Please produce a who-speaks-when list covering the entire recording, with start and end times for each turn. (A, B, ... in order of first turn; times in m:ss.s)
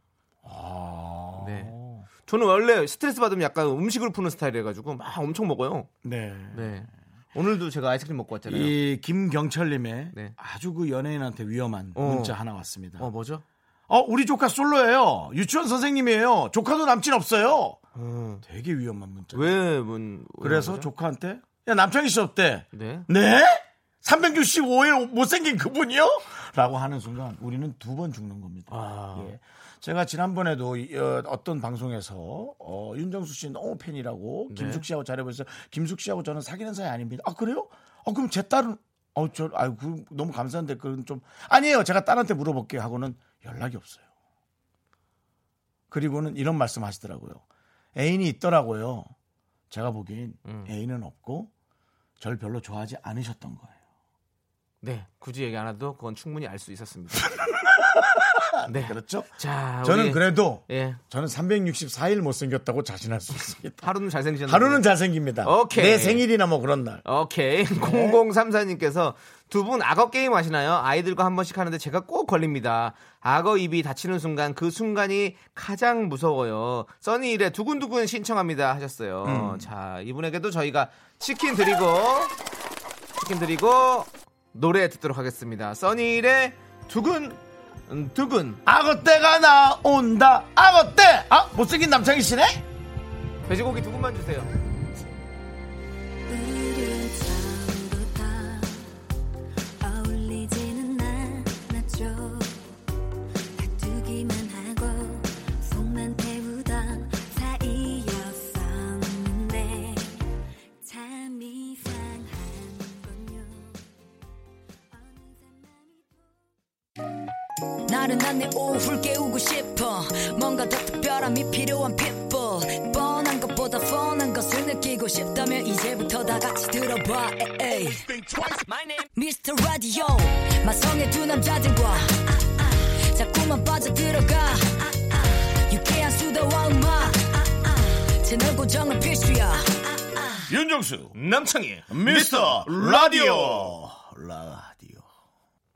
0:00.4-0:02.1 A
0:01.4-0:01.7 B
0:02.2-0:05.9 B
0:06.0-0:06.8 A
0:06.5-0:08.8 B
0:08.5-0:13.1 A
0:12.0-0:12.4 B
0:13.0-0:13.4 B
0:13.9-0:17.8 A
0:18.0-0:18.4 B
0:18.4-0:19.6 A
0:19.3-0:20.9 B
0:20.4-0:44.1 A
0:22.7-0:23.1 B
0:28.7-0:29.3 B
0:34.5-0:34.8 B
0:45.9-0:47.4 A
0:48.0-0:49.1 A
0:49.7-0:51.5 A
0:50.4-0:50.7 B
0:52.2-0:53.8 A
0:54.8-0:57.3 B
0:57.3-1:03.9 A
0:58.6-1:01.0 B
1:03.8-1:04.9 B
1:04.4-1:07.0 A
1:05.4-1:06.2 B
1:07.0-1:22.3 B
1:07.8-1:08.2 A
1:19.2-1:19.7 A
1:23.2-1:28.6 B
1:28.6-1:32.6 A
1:33.5-1:34.5 B
1:36.3-1:39.0 C
1:39.8-1:42.8 C
1:43.6-1:50.3 C
1:50.8-1:53.9 C
1:54.9-1:56.4 C
1:57.9-2:08.1 D
2:09.1-2:20.4 D
2:20.5-2:21.1 A
2:21.1-2:23.7 B
2:21.9-2:25.1 A